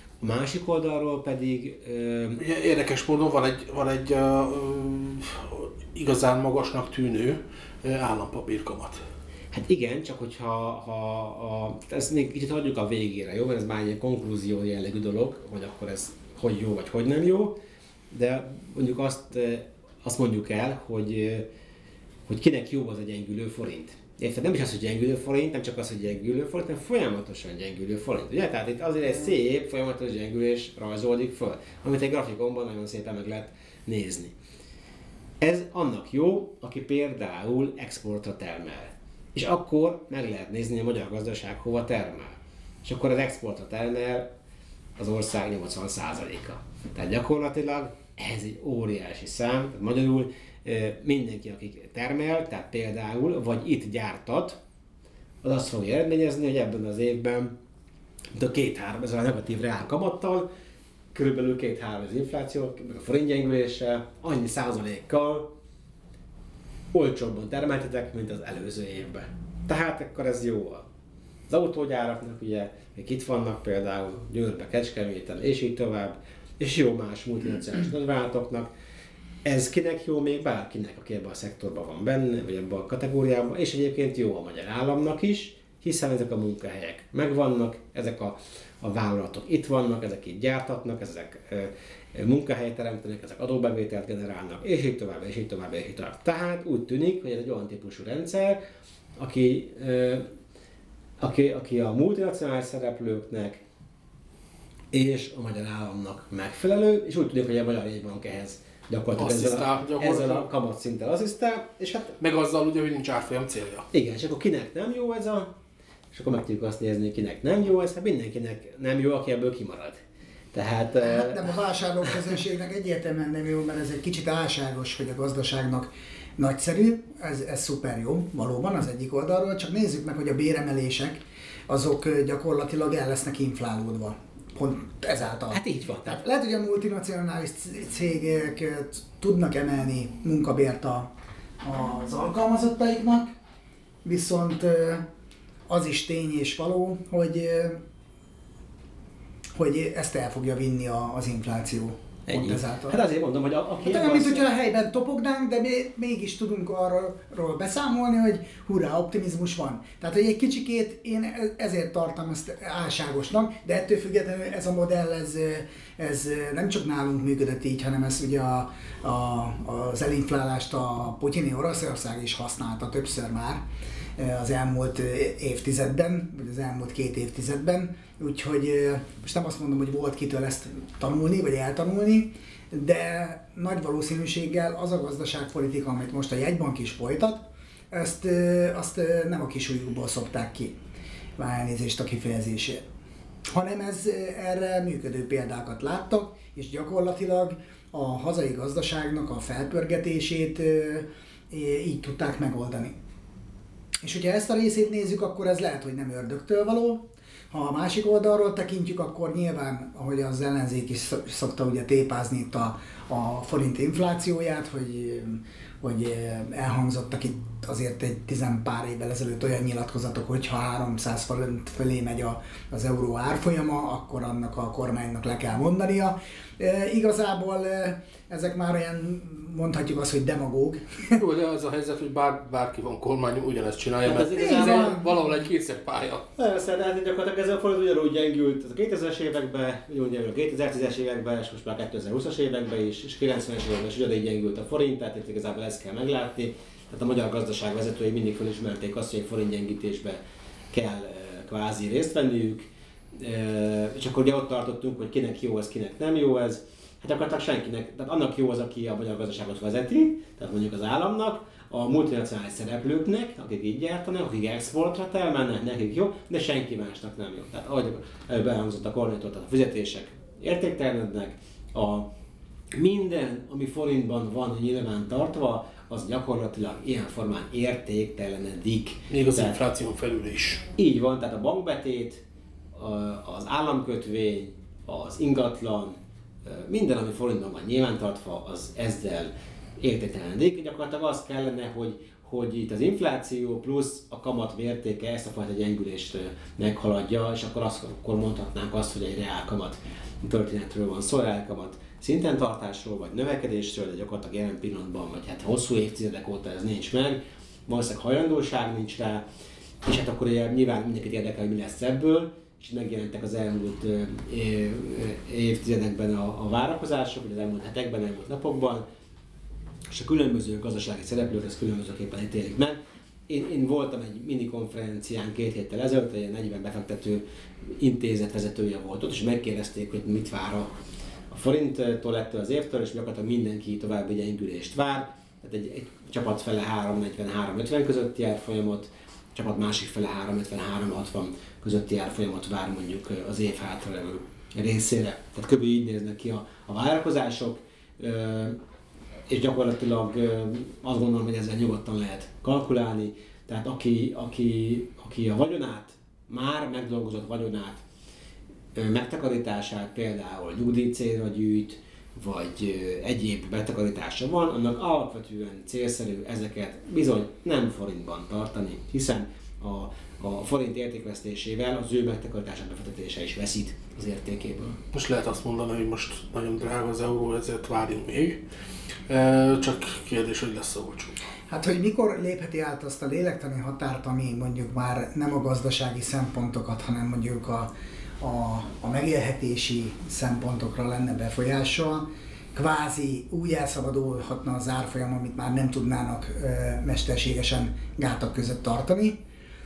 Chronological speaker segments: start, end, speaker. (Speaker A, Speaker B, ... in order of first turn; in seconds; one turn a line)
Speaker A: 0.2-2.4
Speaker B: 2.4-9.0
Speaker A: 9.5-17.6
Speaker A: 18.1-21.5
Speaker A: 22.3-34.4
Speaker A: 35.4-44.3
Speaker A: 45.0-54.6
Speaker A: 55.4-57.6
Speaker A: 58.3-60.5
Speaker A: 61.1-65.5
Speaker A: 66.9-70.9
Speaker A: 71.5-78.7
Speaker A: 79.4-98.6
Speaker A: 99.2-100.3
Speaker A: 101.2-103.6
Speaker A: 104.9-112.2
Speaker B: 109.2-110.5
Speaker B: 112.2-113.9
Speaker A: 113.9-115.5
Speaker A: 116.1-120.0
Speaker A: 120.5-121.6
Speaker C: 121.0-141.1
Speaker A: 135.5-136.2
Speaker C: 141.6-143.3
Speaker C: 144.0-145.1
Speaker C: 145.7-147.8
Speaker C: 149.6-153.0
Speaker A: 152.3-154.5
Speaker C: 153.8-173.6
Speaker C: 174.2-190.8
Speaker C: 191.4-192.8
Speaker C: 193.5-203.0
Speaker C: 204.0-231.2
Speaker B: 231.2-236.2
Speaker A: 234.0-235.0
Speaker C: 234.3-235.1
Speaker A: 236.4-250.2
Speaker A: 250.7-272.1
Speaker A: 272.7-279.6
Speaker B: 279.1-280.6
Speaker A: 280.8-282.2
Speaker A: 282.7-309.2
Speaker A: 309.8-318.9
Speaker A: 319.9-327.2
Speaker A: 327.8-330.7
Speaker A: 331.3-348.6
Speaker A: 349.3-357.8
Speaker A: 358.8-374.8
Speaker B: 374.9-378.4
Speaker B: 379.1-381.2
Speaker C: 381.5-399.2